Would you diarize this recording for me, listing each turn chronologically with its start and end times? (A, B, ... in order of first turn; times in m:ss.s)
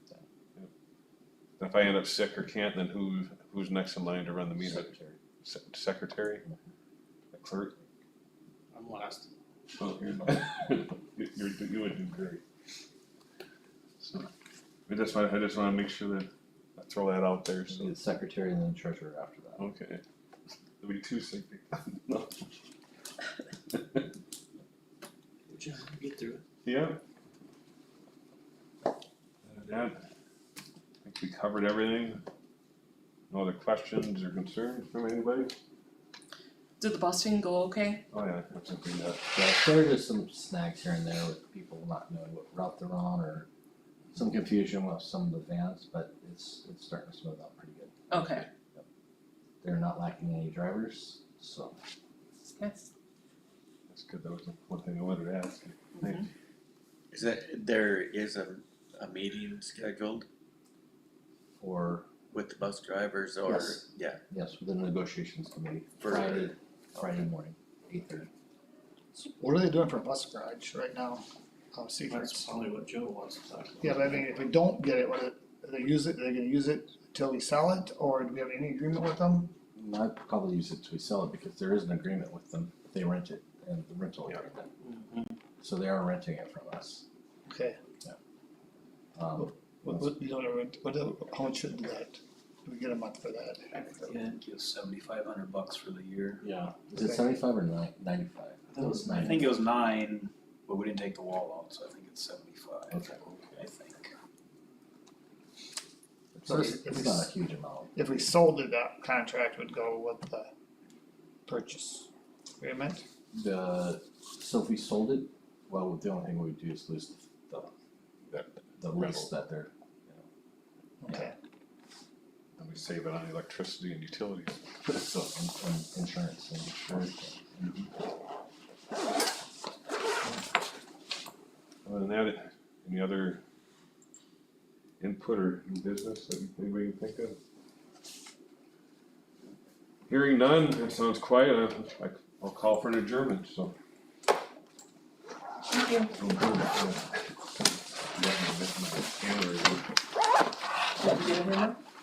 0:01.6-0:04.8 A
0:04.6-0:05.2 B
0:05.4-0:06.4 A
0:07.3-0:07.8 A
0:08.7-0:09.3 C
0:09.7-0:12.4 A
0:14.0-0:14.3 A
0:14.9-0:17.9 A
0:17.7-0:19.7 B
0:19.6-0:20.0 A
0:20.8-0:22.5 A
0:23.7-0:24.1 A
0:25.5-0:26.4 C
0:26.6-0:27.0 A
0:29.4-0:30.0 A
0:31.0-0:32.2 A
0:33.3-0:35.5 A
0:36.8-0:38.0 D
0:38.1-0:39.2 A
0:39.3-0:43.5 B
0:44.1-0:48.0 B
0:48.1-0:48.5 D
0:49.6-0:51.8 B
0:52.6-0:52.9 D
0:53.9-0:56.3 A
0:57.1-1:00.2 E
1:01.6-1:02.1 B
1:02.3-1:04.2 E
1:03.4-1:08.3 B
1:06.0-1:07.2 E
1:09.4-1:12.7 F
1:12.2-1:14.2 C
1:13.8-1:19.5 F
1:19.7-1:24.7 B
1:25.6-1:27.0 B
1:27.5-1:27.8 F
1:29.2-1:30.1 B
1:29.4-1:34.2 F
1:34.1-1:36.4 C
1:36.4-1:39.6 B
1:38.7-1:43.0 C
1:39.2-1:39.9 E
1:42.9-1:43.2 B
1:43.2-1:43.6 A
1:43.6-1:44.0 C
1:46.3-1:48.0 B
1:46.4-1:47.3 F
1:48.0-1:50.5 F
1:51.4-1:52.1 F
1:52.6-1:53.0 F
1:53.3-1:57.7 B
1:58.3-1:59.2 A
1:58.8-2:00.2 B
2:01.0-2:01.3 F
2:02.6-2:05.0 A
2:05.0-2:07.4 B
2:06.8-2:07.9 A
2:11.8-2:13.4 A
2:15.0-2:17.4 A
2:20.1-2:23.7 A
2:25.7-2:26.1 D
2:26.1-2:27.0 A
2:28.1-2:29.9 A
2:31.0-2:31.8 D